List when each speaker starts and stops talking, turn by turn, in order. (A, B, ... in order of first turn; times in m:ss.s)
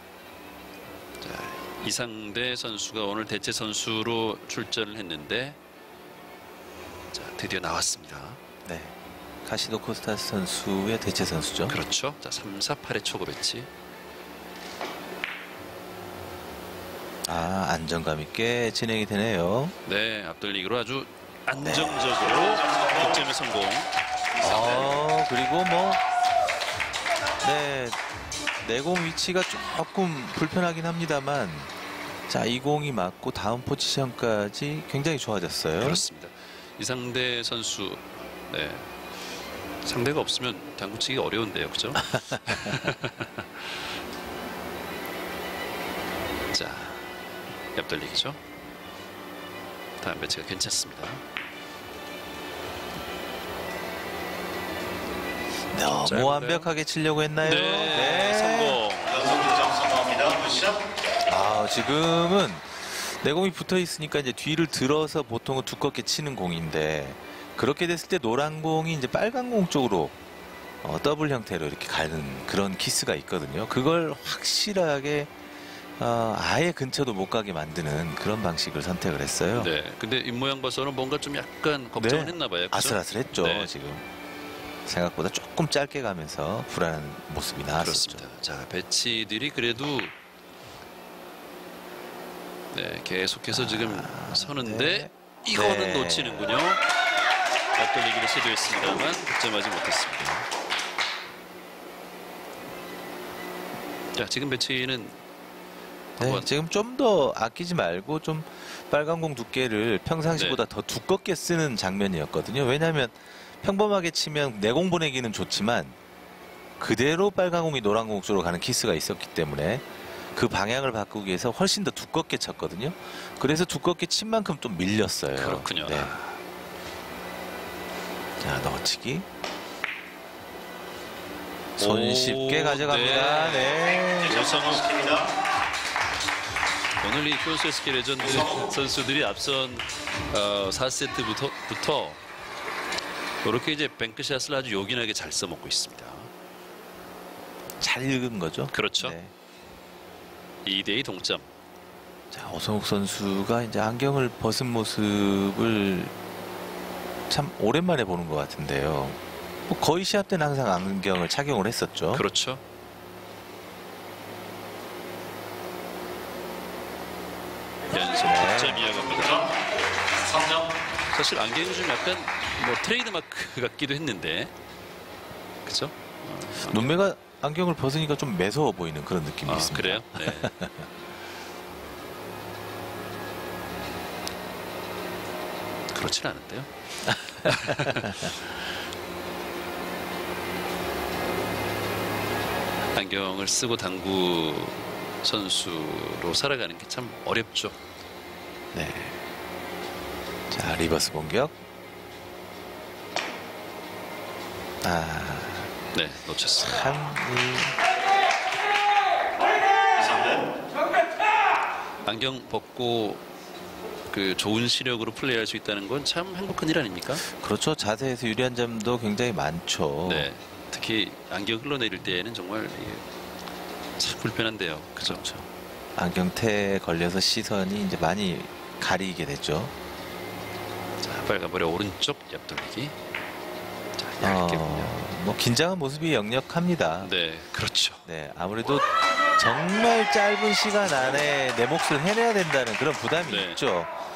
0:01.2-0:05.6 A
0:07.1-0:08.4 A
0:08.6-0:11.8 B
0:11.7-0:13.7 A
0:17.2-0:19.7 B
0:19.8-0:23.9 A
0:21.6-0:22.2 B
0:22.4-0:23.1 C
0:24.4-0:26.0 B
0:27.4-0:28.0 B
0:28.6-0:31.7 B
0:32.3-0:36.0 B
0:35.8-0:38.9 A
0:39.8-0:43.9 A
0:42.1-0:42.9 B
0:46.5-0:47.0 A
0:47.7-0:48.4 A
0:50.0-0:51.2 A
0:55.7-0:58.8 B
0:55.9-0:56.7 A
0:57.4-0:59.4 A
0:59.1-1:00.8 C
1:01.3-1:10.1 B
1:10.8-1:15.3 B
1:16.0-1:19.7 B
1:19.5-1:23.7 A
1:22.0-1:24.0 B
1:24.8-1:28.2 B
1:27.8-1:30.1 A
1:32.7-1:36.8 A
1:33.5-1:36.6 B
1:37.7-1:40.5 A
1:44.1-1:45.2 A
1:46.2-1:56.0 B
1:46.2-1:46.5 A
1:50.3-1:50.6 A
1:56.8-2:06.2 B
2:05.3-2:06.4 A
2:08.4-2:09.2 B
2:11.8-2:14.8 B
2:11.8-2:13.8 A
2:14.0-2:15.3 C
2:17.0-2:22.2 A
2:23.4-2:26.3 A
2:27.8-2:29.3 B
2:28.7-2:29.2 A
2:30.6-2:31.5 A
2:32.3-2:36.1 B
2:37.3-2:42.2 B
2:42.1-2:42.6 A
2:47.9-2:49.5 A
2:48.2-2:48.9 B
2:50.3-2:50.6 C
2:51.1-2:54.5 A
2:55.6-2:57.0 A
2:56.6-3:00.9 B
2:59.4-3:00.5 A
3:05.9-3:08.6 A
3:07.2-3:08.3 B
3:12.9-3:17.8 A
3:18.7-3:19.2 B
3:20.5-3:21.5 B
3:24.8-3:25.7 B
3:25.9-3:27.0 A
3:26.6-3:27.8 B
3:30.1-3:30.4 C
3:32.0-3:33.2 A
3:34.1-3:37.2 A
3:37.1-3:40.3 B
3:40.0-3:43.0 A
3:44.0-3:45.3 A
3:45.0-3:49.7 B
3:51.0-3:53.0 A
3:54.0-3:55.0 A
3:54.2-3:57.1 B
3:57.0-3:58.0 A
3:58.0-4:03.9 B
4:03.2-4:03.6 A